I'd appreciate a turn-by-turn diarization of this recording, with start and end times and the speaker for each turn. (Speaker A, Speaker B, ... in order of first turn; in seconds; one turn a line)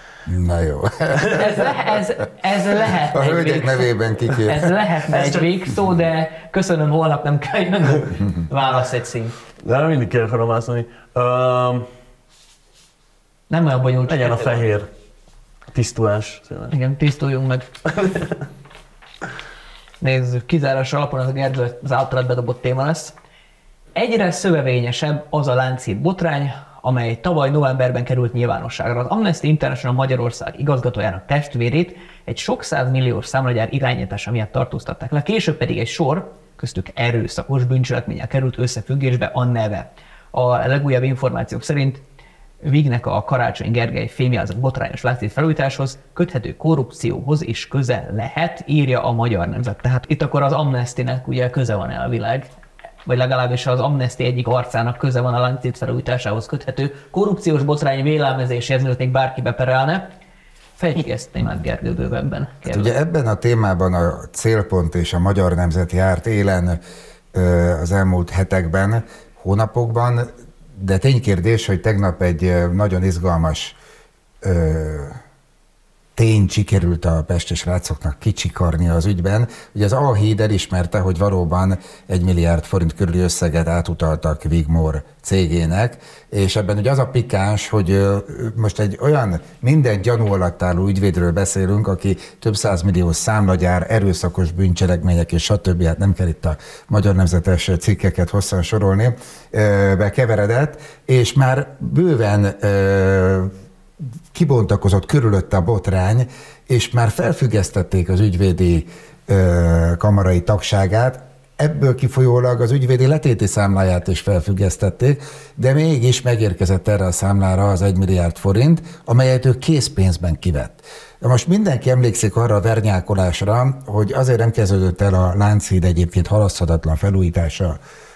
Speaker A: 0.3-1.7
Speaker B: 1.3-3.9
Speaker A: 3.1-5.4
Speaker B: 4.5-9.3
Speaker C: 9.6-11.9
Speaker B: 13.5-14.7
Speaker C: 14.1-14.9
Speaker C: 15.7-16.7
Speaker B: 16.7-17.7
Speaker B: 20.0-23.1
Speaker B: 23.9-42.0
Speaker B: 42.6-52.5
Speaker B: 53.1-60.1
Speaker B: 60.8-62.9
Speaker A: 62.7-66.8
Speaker A: 67.3-73.8
Speaker A: 74.4-75.2
Speaker A: 76.2-103.5
Speaker A: 104.3-127.8